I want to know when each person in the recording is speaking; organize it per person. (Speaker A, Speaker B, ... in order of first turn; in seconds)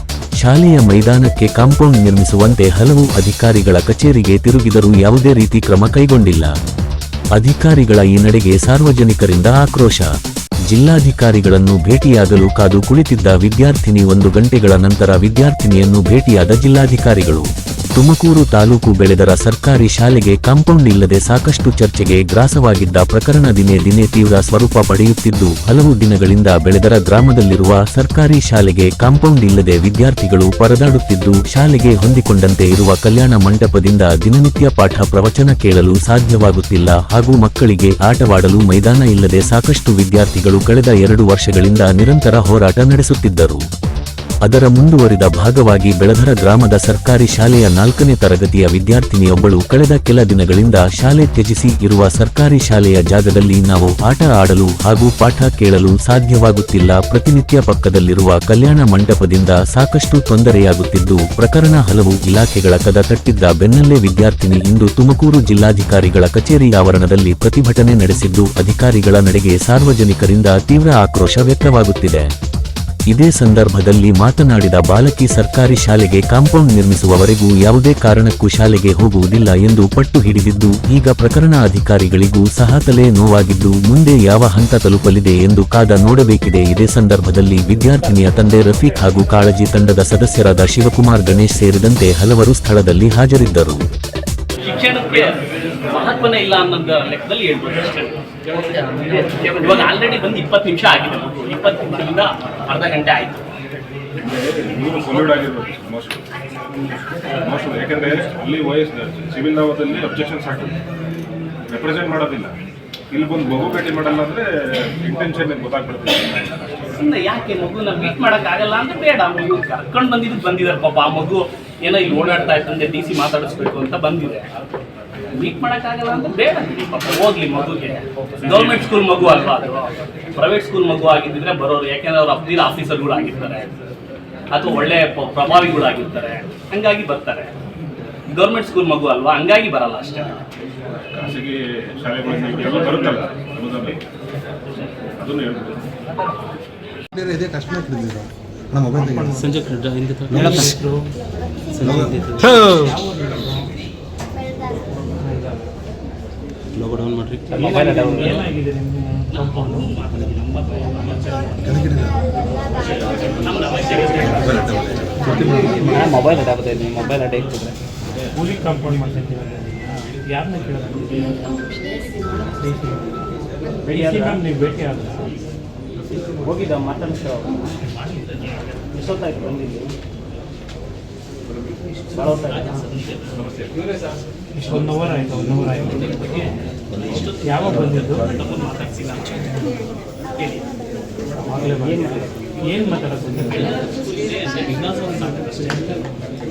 Speaker A: 0.4-6.5, 7.4-10.1, 10.7-43.6, 44.5-72.3, 73.1-93.8
Speaker B: 94.6-98.2, 99.1-103.5, 117.0-124.5, 125.3-133.7, 134.5-137.5, 138.3-140.4, 159.3-161.6, 163.4-164.7, 188.1-189.4, 190.4-190.6, 193.5-196.0
Speaker C: 98.8-99.3, 157.5-158.4, 165.5-167.8, 173.8-174.4, 176.3-177.8, 178.9-179.9, 182.1-182.9, 191.5-192.5
Speaker D: 104.2-106.2, 107.4-110.8, 111.7-112.5, 113.1-116.8, 141.2-144.0, 145.2-145.8
Speaker E: 147.1-149.6, 150.3-150.7, 151.8-152.7, 161.6-162.2, 164.1-166.1
Speaker F: 149.0-149.5, 150.3-151.1, 152.7-153.7, 155.2-155.7, 157.6-160.0, 168.3-171.5, 172.3-173.3, 173.9-175.4, 184.6-186.6, 187.4-188.3, 189.5-189.8, 191.4-193.8
Speaker G: 149.3-150.8, 151.7-152.8, 156.8-157.5